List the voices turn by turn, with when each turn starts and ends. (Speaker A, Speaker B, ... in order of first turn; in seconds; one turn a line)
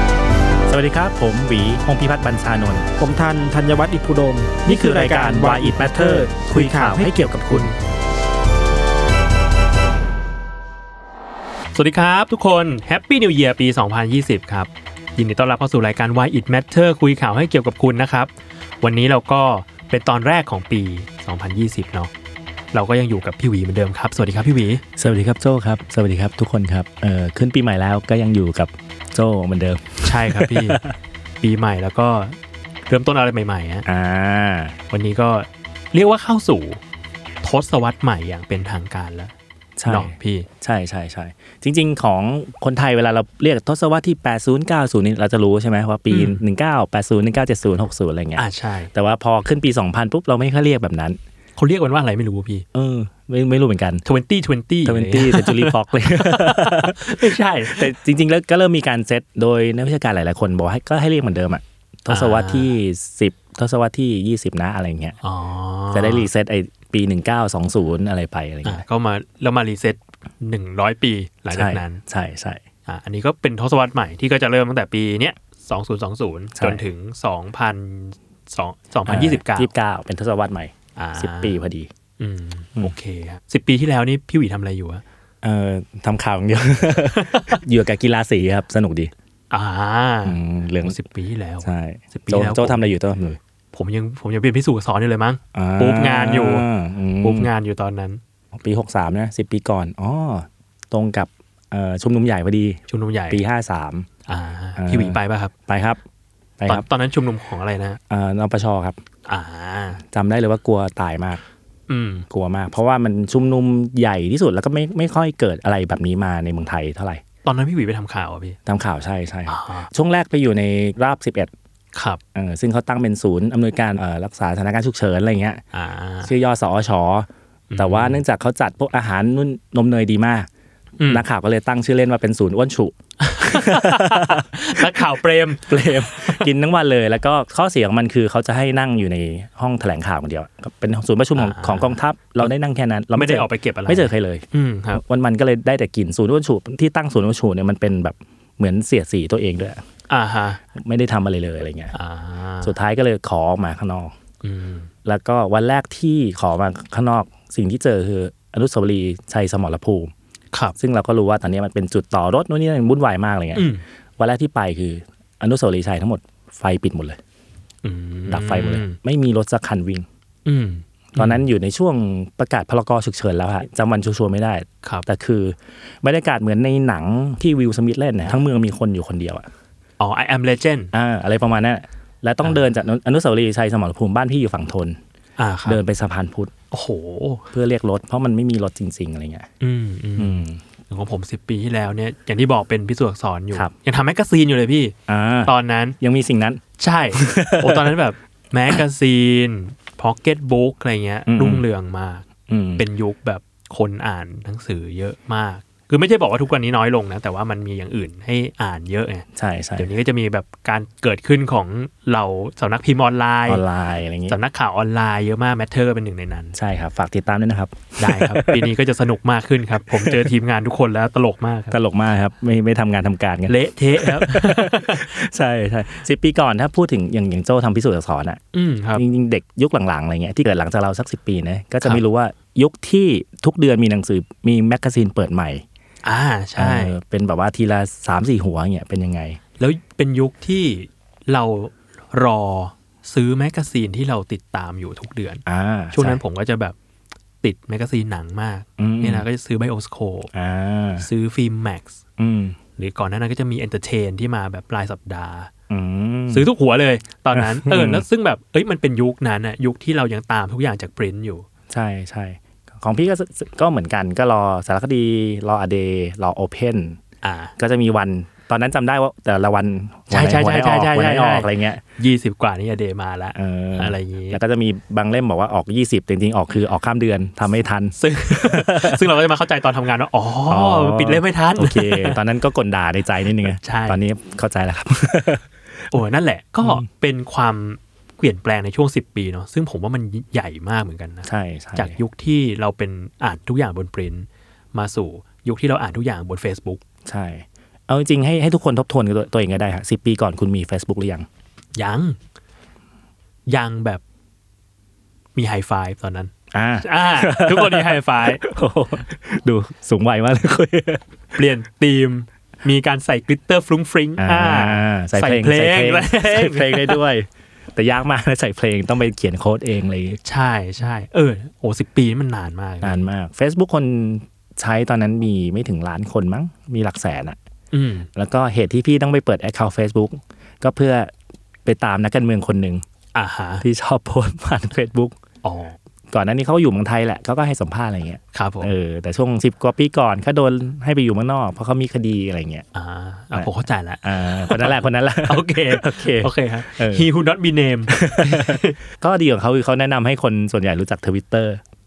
Speaker A: 0.7-2.9
Speaker B: 3.0-7.7
Speaker A: 4.7-7.7
Speaker C: 11.7-22.1
Speaker C: 22.7-24.8
Speaker A: 25.0-30.9
Speaker C: 30.0-30.8
Speaker C: 31.4-33.8
Speaker A: 33.8-34.8
Speaker C: 34.9-36.8
Speaker C: 37.4-39.3
Speaker A: 39.8-51.2
Speaker C: 39.9-40.5
Speaker C: 46.1-46.4
Speaker C: 48.4-48.9
Speaker C: 51.6-52.6
Speaker A: 52.7-54.0
Speaker C: 54.0-57.9
Speaker A: 54.8-65.2
Speaker C: 62.1-62.7
Speaker C: 65.2-66.3
Speaker A: 65.9-68.8
Speaker C: 68.6-72.0
Speaker A: 71.5-72.6
Speaker C: 72.9-79.7
Speaker A: 76.5-76.8
Speaker A: 79.0-81.9
Speaker C: 81.0-81.6
Speaker C: 82.2-85.0
Speaker A: 85.4-89.1
Speaker C: 87.2-87.6
Speaker C: 89.5-92.9
Speaker A: 90.2-91.0
Speaker A: 91.6-93.4
Speaker C: 93.7-96.7
Speaker A: 95.5-97.5
Speaker C: 97.2-98.2
Speaker A: 98.5-104.1
Speaker C: 102.9-103.4
Speaker C: 104.3-105.5
Speaker A: 104.8-106.0
Speaker A: 106.6-106.8
Speaker C: 106.7-108.0
Speaker A: 108.1-109.0
Speaker C: 109.3-110.0
Speaker A: 110.0-111.4
Speaker C: 111.9-112.3
Speaker A: 112.3-117.2
Speaker C: 117.4-118.6
Speaker A: 118.7-121.5
Speaker C: 119.5-119.9
Speaker C: 121.9-122.2
Speaker A: 122.3-125.6
Speaker C: 125.7-126.3
Speaker A: 126.2-130.5
Speaker C: 127.7-128.2
Speaker C: 131.0-131.2
Speaker A: 131.1-135.0
Speaker C: 133.2-136.5
Speaker A: 135.6-149.8
Speaker C: 141.3-142.5
Speaker C: 143.1-145.0
Speaker C: 150.1-150.6
Speaker A: 150.7-151.9
Speaker C: 151.9-152.8
Speaker A: 152.6-154.1
Speaker C: 154.4-154.9
Speaker A: 155.0-160.1
Speaker A: 160.8-167.2
Speaker C: 163.5-163.8
Speaker C: 167.8-169.0
Speaker A: 168.3-170.1
Speaker C: 170.4-171.4
Speaker A: 171.1-179.5
Speaker C: 180.0-180.9
Speaker A: 180.9-185.0
Speaker C: 185.4-185.8
Speaker A: 185.7-186.5
Speaker C: 186.7-187.5
Speaker A: 187.5-189.5
Speaker C: 189.6-196.0
Speaker A: 190.2-190.6
Speaker A: 195.1-196.6
Speaker C: 196.8-202.2
Speaker A: 197.1-197.9
Speaker A: 201.3-201.7
Speaker A: 202.5-202.8
Speaker C: 202.8-209.2
Speaker A: 209.3-209.9
Speaker C: 209.8-213.6
Speaker A: 213.4-214.4
Speaker C: 214.3-216.6
Speaker A: 216.5-218.7
Speaker C: 218.0-221.8
Speaker A: 219.9-220.3
Speaker A: 221.7-228.4
Speaker C: 223.5-225.1
Speaker C: 228.5-229.0
Speaker A: 228.9-235.6
Speaker C: 236.0-236.9
Speaker A: 236.6-239.4
Speaker C: 239.6-246.8
Speaker A: 245.4-246.2
Speaker C: 247.4-250.3
Speaker A: 248.8-249.2
Speaker A: 250.3-251.1
Speaker C: 251.0-252.0
Speaker A: 252.2-252.6
Speaker C: 252.8-255.5
Speaker A: 255.7-256.5
Speaker C: 256.3-261.4
Speaker A: 257.3-258.0
Speaker A: 261.7-267.0
Speaker C: 267.2-267.5
Speaker A: 267.6-271.8
Speaker C: 270.1-274.4
Speaker A: 273.4-279.0
Speaker C: 278.0-282.2
Speaker A: 280.5-285.4
Speaker C: 283.4-284.0
Speaker C: 285.9-296.8
Speaker A: 291.2-292.0
Speaker A: 297.0-301.3
Speaker C: 301.8-302.2
Speaker C: 303.5-304.0
Speaker C: 305.3-308.4
Speaker A: 306.5-311.0
Speaker C: 311.3-317.0
Speaker A: 314.2-320.2
Speaker C: 320.2-323.0
Speaker A: 322.8-327.4
Speaker C: 327.7-328.1
Speaker A: 328.1-331.1
Speaker A: 331.6-332.8
Speaker C: 333.1-333.6
Speaker A: 333.6-335.2
Speaker C: 335.4-335.8
Speaker A: 336.1-342.6
Speaker C: 338.3-338.7
Speaker C: 342.7-348.8
Speaker A: 344.0-347.1
Speaker A: 347.9-351.6